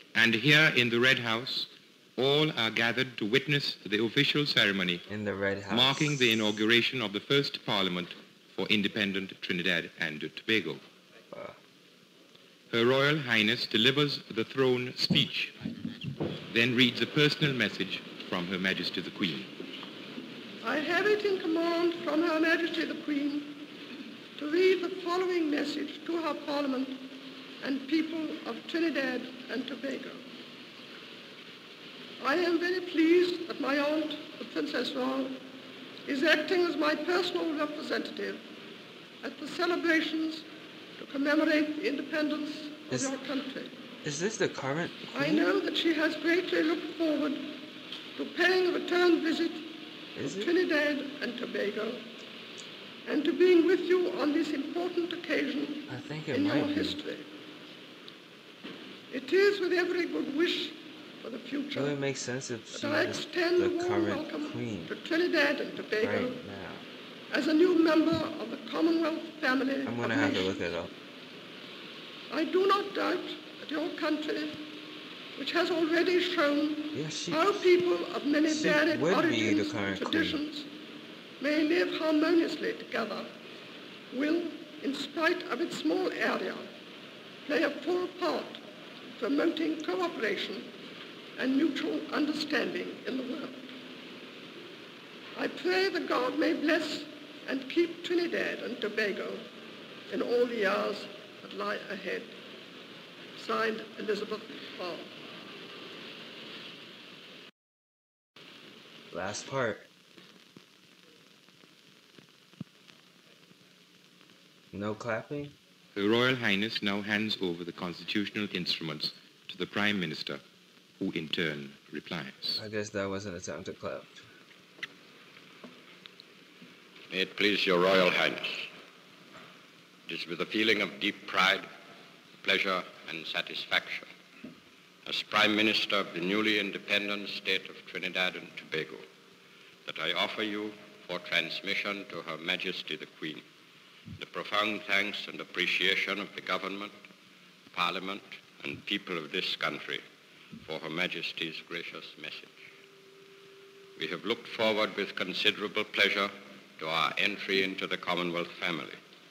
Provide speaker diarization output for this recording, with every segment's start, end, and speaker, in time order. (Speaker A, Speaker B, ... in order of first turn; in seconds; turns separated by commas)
Speaker A: 0.1-5.0, Speaker B: 5.1-6.2, Speaker A: 5.7-10.8, Speaker B: 11.3-11.6, Speaker A: 12.7-15.6, Speaker A: 16.5-19.6, Speaker C: 20.6-23.6, Speaker C: 24.4-27.1, Speaker C: 27.6-30.2, Speaker C: 32.2-35.4, Speaker C: 36.0-38.4, Speaker C: 39.2-40.5, Speaker C: 41.0-43.7, Speaker B: 44.0-45.5, Speaker C: 45.1-47.6, Speaker C: 48.1-49.7, Speaker B: 50.1-50.5, Speaker C: 50.2-52.0, Speaker C: 53.0-57.3, Speaker B: 55.9-57.0, Speaker C: 59.1-62.0, Speaker B: 61.7-64.9, Speaker C: 62.7-66.4, Speaker B: 66.0-66.8, Speaker C: 67.3-70.6, Speaker B: 69.8-70.9, Speaker C: 72.3-74.6, Speaker C: 75.3-80.7, Speaker B: 76.9-77.7, Speaker B: 78.5-80.4, Speaker C: 81.4-83.3, Speaker C: 84.1-86.7, Speaker C: 87.4-88.6, Speaker C: 89.2-90.7, Speaker C: 91.4-93.7, Speaker C: 95.3-99.5, Speaker C: 100.1-102.3, Speaker C: 103.3-105.1, Speaker B: 109.1-109.9, Speaker B: 114.7-115.5, Speaker A: 115.9-120.4, Speaker A: 121.0-122.6, Speaker B: 122.6-124.2, Speaker D: 127.1-128.7, Speaker D: 130.1-131.7, Speaker D: 132.4-134.1, Speaker D: 135.1-139.0, Speaker D: 139.8-143.4, Speaker D: 144.2-146.9, Speaker D: 147.7-150.0, Speaker D: 150.6-152.6, Speaker D: 154.0-159.0